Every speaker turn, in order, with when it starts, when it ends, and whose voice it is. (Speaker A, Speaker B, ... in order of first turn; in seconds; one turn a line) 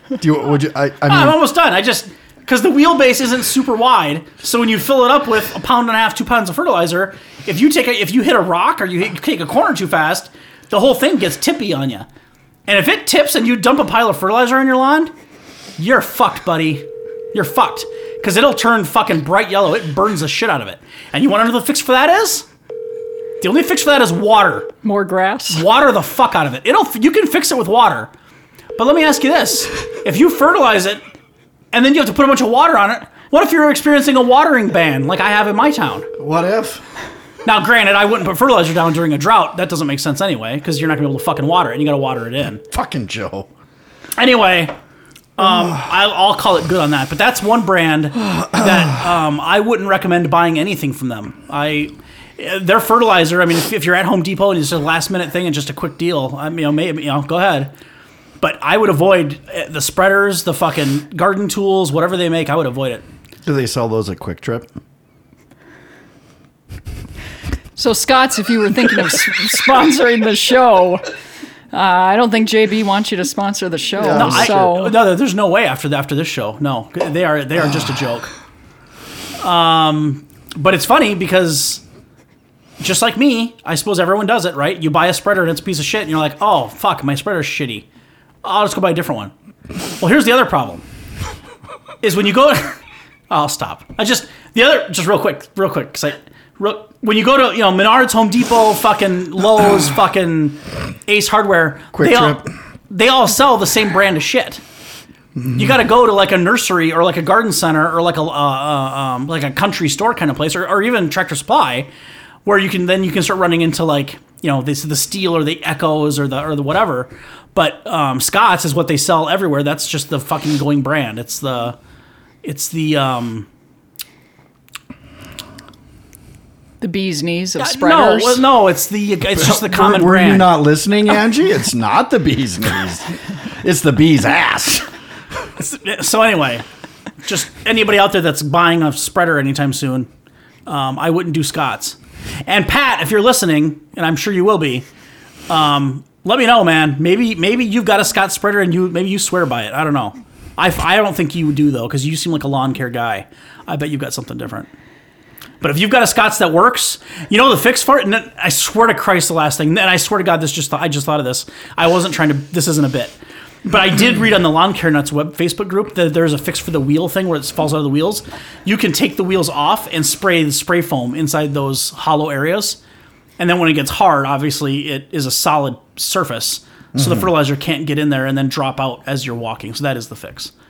Speaker A: 0.2-1.4
Speaker B: 1.1-12.1
Speaker B: 12.7-15.1
Speaker B: 15.8-22.5
Speaker B: 23.4-24.7
Speaker C: 24.8-25.6
Speaker B: 25.5-28.1
Speaker B: 28.8-31.0
Speaker B: 31.7-36.1
Speaker A: 36.2-36.8
Speaker B: 37.5-42.6
Speaker A: 42.7-43.5
Speaker B: 44.2-44.7
Speaker B: 45.4-57.7
Speaker A: 48.4-48.7
Speaker B: 58.4-63.0
Speaker A: 63.5-64.7
Speaker C: 67.8-71.0
Speaker C: 71.7-75.0
Speaker A: 74.0-74.7
Speaker B: 74.1-78.3
Speaker B: 79.4-81.8
Speaker B: 82.8-87.9
Speaker B: 88.4-89.3
Speaker B: 90.0-90.8
Speaker B: 92.0-92.8
Speaker B: 93.3-104.6
Speaker A: 101.9-102.5
Speaker B: 105.6-111.9
Speaker B: 112.5-121.8
Speaker B: 122.4-123.5
Speaker C: 126.8-128.4
Speaker B: 127.6-130.5
Speaker A: 129.3-134.9
Speaker B: 135.6-136.7
Speaker B: 137.2-140.1
Speaker B: 140.7-144.9
Speaker B: 145.5-154.7
Speaker B: 155.6-172.8
Speaker B: 173.4-180.5
Speaker A: 176.9-177.3